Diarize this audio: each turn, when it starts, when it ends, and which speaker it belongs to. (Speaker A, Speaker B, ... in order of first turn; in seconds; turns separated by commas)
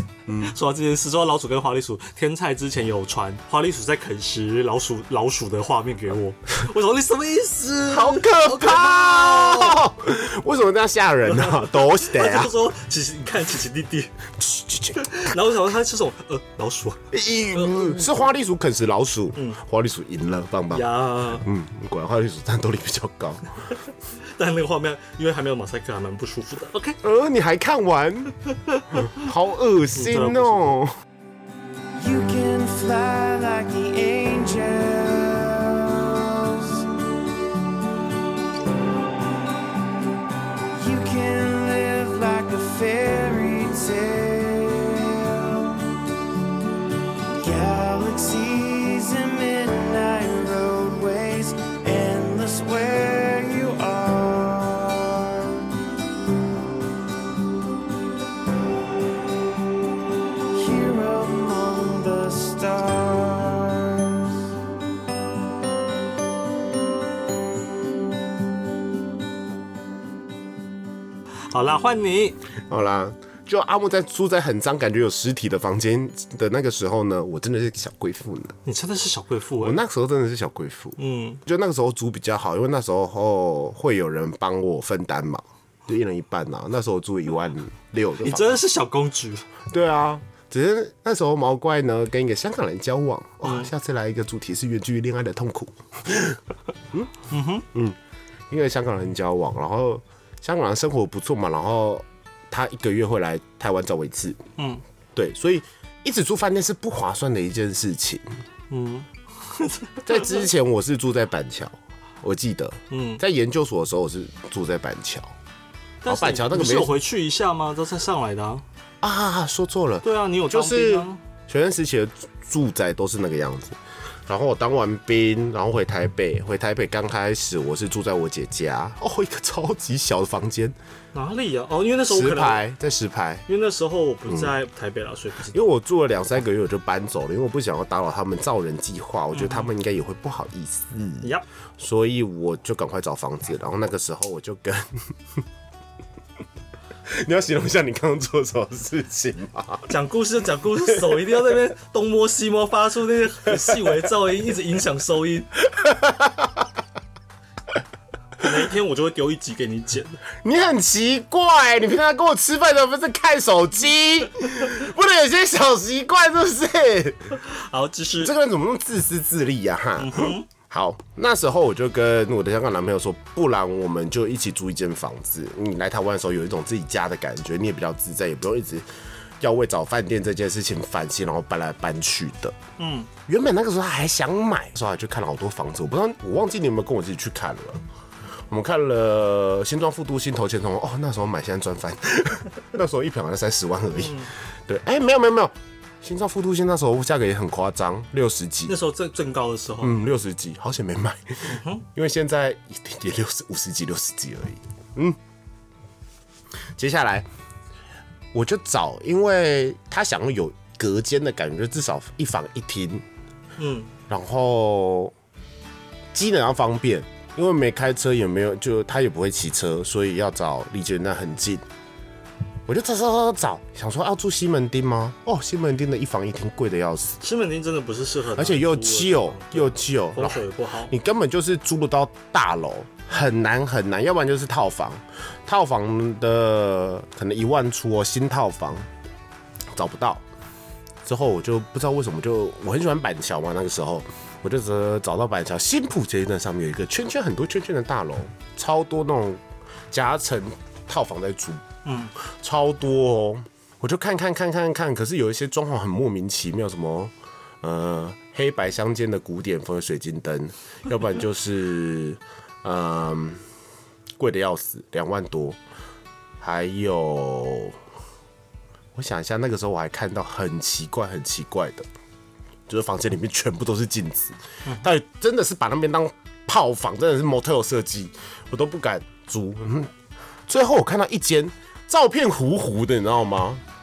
Speaker A: 0.3-0.5, Speaker B: 0.4-9.8, Speaker A: 7.9-12.5, Speaker B: 11.3-14.1, Speaker A: 14.4-15.1, Speaker B: 15.0-18.0, Speaker A: 17.1-23.5, Speaker B: 20.7-21.4, Speaker B: 24.3-27.0, Speaker A: 27.0-28.4, Speaker B: 28.6-29.2, Speaker A: 29.0-30.9, Speaker B: 29.9-30.8, Speaker C: 32.0-36.9, Speaker C: 40.7-45.9, Speaker C: 47.4-55.6, Speaker C: 60.5-64.3, Speaker B: 71.5-72.4, Speaker A: 72.7-78.5, Speaker B: 78.7-79.8, Speaker A: 79.6-88.6, Speaker B: 81.0-81.4, Speaker B: 88.2-89.5, Speaker A: 89.7-96.4, Speaker B: 93.4-93.7, Speaker B: 97.3-97.7, Speaker A: 98.5-104.4, Speaker B: 104.6-104.8, Speaker A: 105.2-108.3, Speaker B: 108.7-110.4, Speaker A: 110.0-115.3, Speaker B: 112.9-113.2, Speaker B: 116.0-118.6, Speaker A: 116.1-117.0, Speaker A: 119.0-130.8, Speaker B: 120.0-121.2, Speaker B: 131.1-132.6, Speaker A: 132.1-133.4, Speaker B: 133.5-135.6, Speaker A: 134.3-134.5, Speaker A: 135.5-145.1, Speaker B: 139.3-139.7, Speaker A: 147.1-149.9, Speaker B: 149.9-155.5, Speaker A: 155.7-156.7, Speaker B: 158.4-160.2, Speaker A: 160.4-167.4, Speaker B: 167.4-168.3, Speaker A: 168.2-178.9, Speaker B: 170.0-170.5, Speaker A: 179.4-182.6, Speaker B: 182.8-183.1, Speaker A: 183.3-187.8, Speaker A: 188.5-198.7, Speaker B: 194.0-194.3, Speaker B: 198.7-200.0, Speaker A: 199.8-205.2, Speaker B: 201.5-201.8, Speaker A: 206.8-207.3, Speaker A: 208.3-213.1, Speaker B: 213.6-213.9, Speaker A: 214.1-215.1, Speaker A: 216.1-221.7, Speaker A: 222.7-227.2, Speaker B: 227.2-230.9, Speaker A: 228.3-238.9, Speaker A: 239.7-240.2, Speaker A: 241.1-251.6, Speaker B: 251.8-252.1, Speaker A: 252.2-263.4, Speaker A: 264.2-265.6, Speaker A: 266.4-267.8, Speaker A: 268.9-271.9, Speaker A: 272.7-279.9, Speaker A: 280.5-283.6